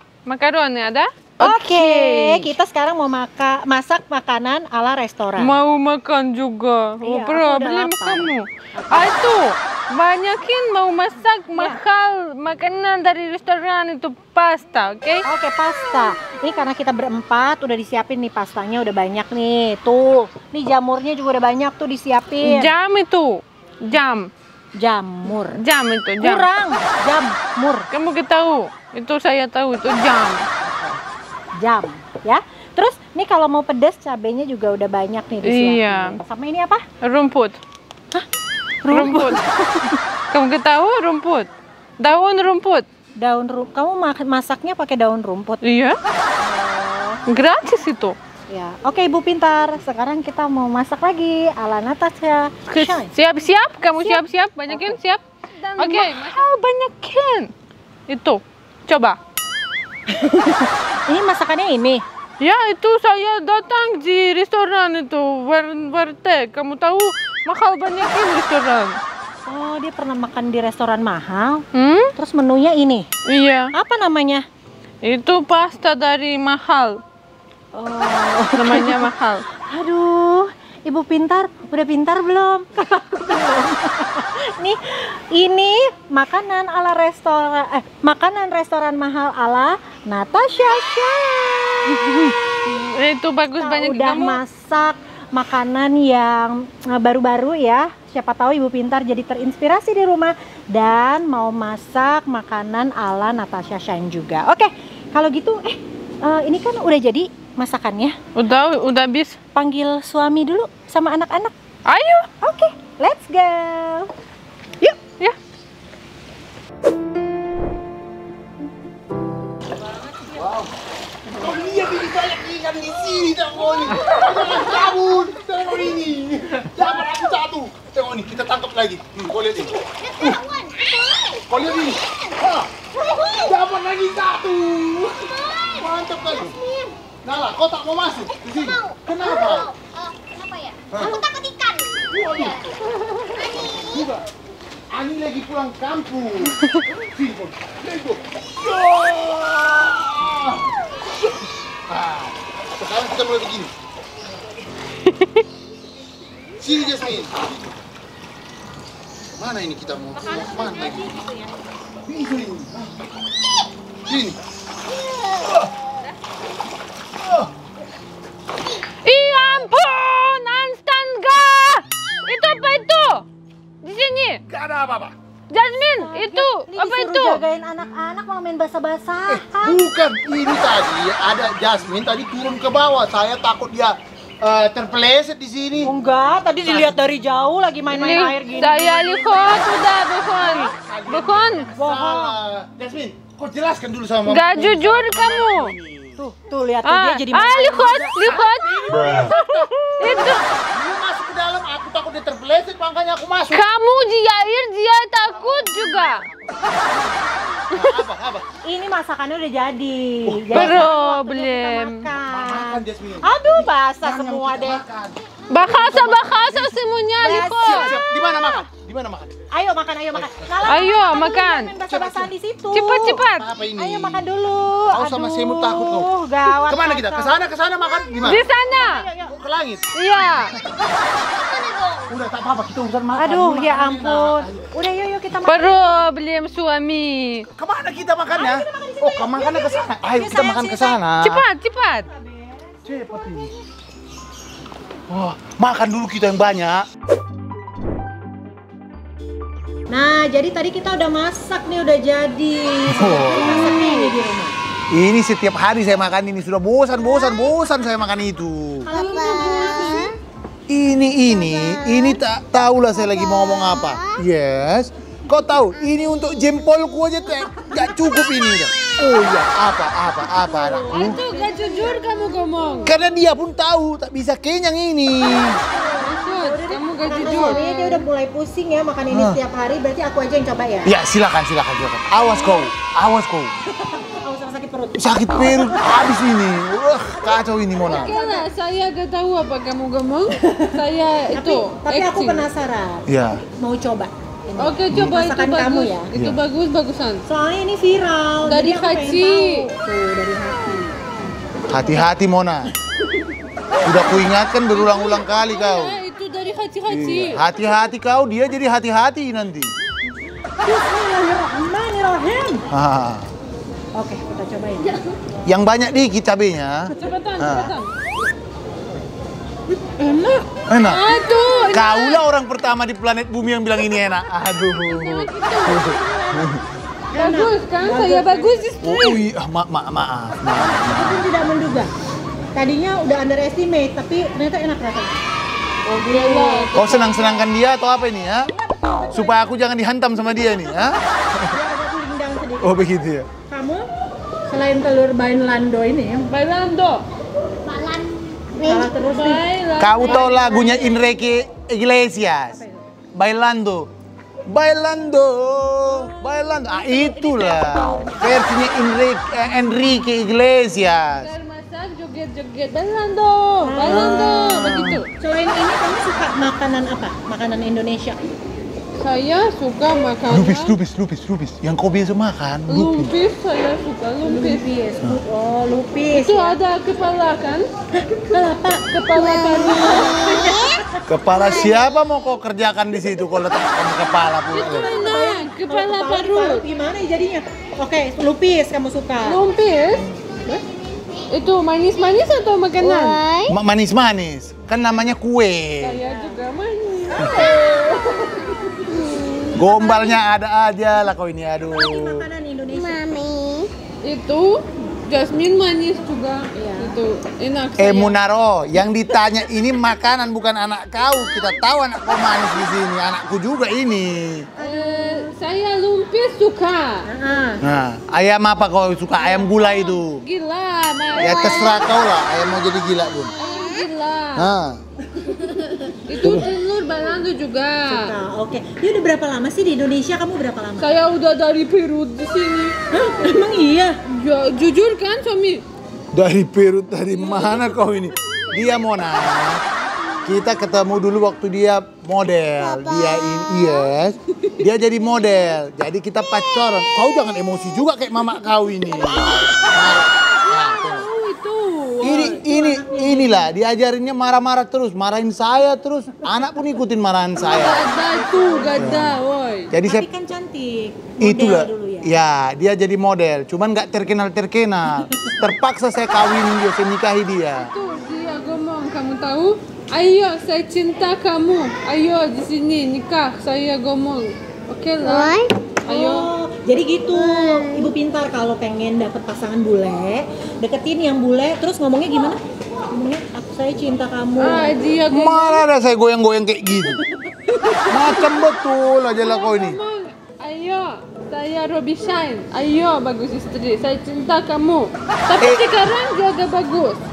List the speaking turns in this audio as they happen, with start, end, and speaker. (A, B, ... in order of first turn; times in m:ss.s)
0:00.3-0:02.5 A
0:01.4-0:05.5 B
0:05.4-0:15.2 A
0:07.0-0:09.1 B
0:15.2-0:22.7 B
0:22.4-0:24.3 A
0:24.8-0:25.6 B
0:25.6-0:26.4 A
0:26.2-0:27.9 B
0:27.9-0:30.4 A
0:30.6-0:31.0 B
0:31.6-0:36.8 B
0:35.4-0:36.2 A
0:37.0-0:37.6 A
0:38.8-0:40.0 B
0:38.9-0:39.4 A
0:40.3-0:41.5 A
0:42.0-0:42.8 A
0:43.2-0:45.6 B
0:45.6-0:46.0 A
0:46.4-0:47.2 B
0:47.3-0:48.2 A
0:48.5-0:53.1 B
0:52.7-0:57.5 A
0:54.0-0:54.9 B
0:55.8-0:56.4 B
0:58.1-0:59.2 A
1:00.1-1:02.0 B
1:02.4-1:09.0 A
1:09.4-1:11.6 B
1:11.7-1:12.1 A
1:12.2-1:13.1 B
1:13.3-1:13.7 A
1:13.7-1:14.4 B
1:15.0-1:17.0 A
1:17.7-1:19.1 B
1:18.6-1:19.4 A
1:19.7-1:32.4 B
1:32.6-1:34.4 A
1:33.6-1:48.2 B
1:48.4-1:49.4 A
1:49.5-1:51.5 B
1:51.9-1:52.3 A
1:52.4-1:54.1 B
2:00.3-2:00.7 C
2:01.3-2:10.4 C
2:10.0-2:12.4 D
2:11.5-2:12.7 C
2:12.9-2:13.6 D
2:13.4-2:16.6 C
2:15.2-2:17.0 D
2:17.2-2:19.7 C
2:18.4-2:22.7 D
2:20.9-2:21.2 C
2:22.1-2:24.2 C
2:23.3-2:24.2 D
2:24.9-2:30.7 C
2:31.8-2:33.7 C
2:36.6-2:37.7 C
2:39.4-2:41.1 C
2:40.1-2:41.6 B
2:42.0-2:42.9 C
2:44.0-2:44.4 C
2:45.0-2:45.5 D
2:45.4-2:45.7 C
2:47.2-2:47.5 C
2:49.0-2:53.2 A
2:53.8-2:54.4 A
2:54.5-2:55.1 C
2:55.5-2:57.4 A
2:56.0-2:59.8 B
2:59.3-3:05.9 C
3:05.8-3:09.8 B
3:06.6-3:07.0 C
3:07.9-3:11.7 A
3:10.2-3:16.2 C
3:10.4-3:10.7 B
3:11.8-3:12.4 B
3:14.3-3:15.7 A
3:16.2-3:18.2 B
3:16.8-3:19.3 A
3:18.2-3:23.6 C
3:19.1-3:20.5 B
3:20.0-3:20.4 A
3:23.5-3:26.2 A
3:25.3-3:28.5 C
3:28.6-3:34.8 B
3:30.3-3:30.9 C
3:30.5-3:32.0 A
3:32.2-3:36.8 C
3:35.5-3:37.9 A
3:37.2-3:38.0 B
3:37.3-3:39.3 C
3:39.5-3:43.2 B
3:40.1-3:40.5 C
3:40.6-3:41.7 A
3:41.9-3:42.3 C
3:42.7-3:43.4 A
3:43.4-3:44.3 C
3:43.8-3:47.4 B
3:44.9-3:46.1 C
3:46.6-3:48.4 C
3:48.2-3:49.3 B
3:48.2-3:49.0 A
3:49.3-3:49.8 C
3:49.9-3:50.5 A
3:50.6-3:52.1 D
3:52.1-3:54.7 C
3:53.2-3:55.8 B
3:55.5-3:57.5 A
3:57.6-4:01.4 C
3:58.3-4:01.0 B
4:01.2-4:02.1 A
4:02.1-4:03.6 B
4:02.8-4:03.5 C
4:05.1-4:06.9 C
4:09.9-4:14.6 B
4:12.9-4:13.9 C
4:13.2-4:14.0 A
4:14.9-4:18.9 C
4:18.8-4:20.2 B
4:18.9-4:20.2 D
4:20.7-4:31.2 C
4:21.3-4:22.2 D
4:23.0-4:24.2 D
4:30.5-4:32.2 B
4:30.9-4:32.9 A
4:32.8-4:35.6 C
4:35.4-4:40.9 B
4:36.0-4:38.0 A
4:39.1-4:39.4 C
4:40.8-4:43.5 C
4:42.4-4:42.7 B
4:43.6-4:45.9 B
4:45.0-4:48.1 C
4:47.2-4:48.5 B
4:47.9-4:52.4 A
4:50.4-4:50.8 B
4:51.3-4:56.1 B
4:53.1-4:53.4 C
4:54.6-4:57.2 A
4:57.2-5:01.0 B
4:58.4-4:59.6 A
5:01.7-5:02.7 C
5:01.7-5:02.0 B
5:03.1-5:04.2 B
5:03.8-5:06.0 C
5:04.7-5:07.4 A
5:06.9-5:09.7 C
5:10.6-5:12.6 B
5:12.7-5:13.3 C
5:13.9-5:14.9 B
5:15.4-5:17.7 C
5:16.9-5:17.9 A
5:20.0-5:22.2 A
5:20.7-5:21.1 C
5:21.7-5:26.6 C
5:24.9-5:26.0 A
5:25.8-5:26.6 B
5:27.1-5:28.7 B
5:27.1-5:29.2 A
5:28.8-5:31.3 C
5:30.5-5:31.9 B
5:32.5-5:35.2 B
5:35.9-5:37.4 A
5:35.9-5:37.2 B
5:36.7-5:38.5 C
5:38.5-5:39.4 B
5:39.1-5:41.6 C
5:41.5-5:42.9 B
5:42.6-5:43.3 C
5:43.5-5:43.8 B
5:44.5-5:46.3 B
5:46.3-5:47.0 A
5:47.6-5:48.8 D
5:48.6-5:49.4 B
5:49.0-5:50.8 A
5:49.8-5:52.6 C
5:50.1-5:50.8 B
5:52.5-5:52.8 B
5:53.2-5:53.9 C
5:54.5-6:01.3 C
5:56.7-5:58.4 B
6:01.2-6:05.1 A
6:03.6-6:08.2 B
6:03.8-6:05.0 C
6:09.0-6:10.8 A
6:10.3-6:13.1 C
6:12.7-6:14.7 A
6:14.2-6:16.6 B
6:16.1-6:17.6 A
6:18.0-6:21.8 B
6:18.9-6:20.3 A
6:19.1-6:20.8 D
6:21.1-6:24.9 C
6:21.5-6:21.8 D
6:24.5-6:26.6 A
6:24.6-6:29.4 B
6:29.2-6:30.0 A
6:30.0-6:30.6 B
6:30.6-6:31.2 D
6:31.3-6:33.2 A
6:32.8-6:33.6 D
6:33.5-6:36.0 C
6:35.8-6:38.4 A
6:36.0-6:36.4 B
6:37.2-6:38.1 B
6:37.2-6:37.5 C
6:37.5-6:38.5 D
6:39.5-6:42.2 C
6:39.5-6:40.2 B
6:41.7-6:43.0 B
6:42.7-6:43.7 D
6:44.0-6:48.2 A
6:46.6-6:46.9 B
6:47.8-6:54.5 C
6:54.6-6:57.0 A
6:54.6-6:55.3 B
6:57.1-6:57.6 B
6:57.6-7:00.2 C
6:59.9-7:01.8 A
7:01.1-7:03.3 C
7:03.4-7:04.5 A
7:04.4-7:04.8 C
7:05.2-7:06.0 B
7:06.0-7:08.1 A
7:06.2-7:06.5 C
7:07.9-7:10.9 B
7:10.8-7:12.8 A
7:12.9-7:14.0 B
7:14.1-7:15.6 A
7:16.1-7:19.6 C
7:20.2-7:31.1 C
7:22.6-7:23.7 D
7:30.4-7:32.4 A
7:32.0-7:37.9 C
7:32.1-7:33.5 B
7:37.4-7:39.7 A
7:37.6-7:39.1 B
7:38.8-7:39.2 C
7:39.7-7:40.1 C
7:39.8-7:42.1 B
7:41.2-7:47.7 C
7:45.0-7:45.4 B
7:47.5-7:56.3 A
7:55.0-7:55.6 D
7:55.8-8:02.4 B
7:57.1-7:57.9 D
8:02.9-8:04.7 B
8:04.4-8:05.6 A
8:05.1-8:07.0 C
8:07.5-8:08.3 A
8:07.9-8:09.8 C
8:09.2-8:17.0 A
8:15.4-8:15.7 C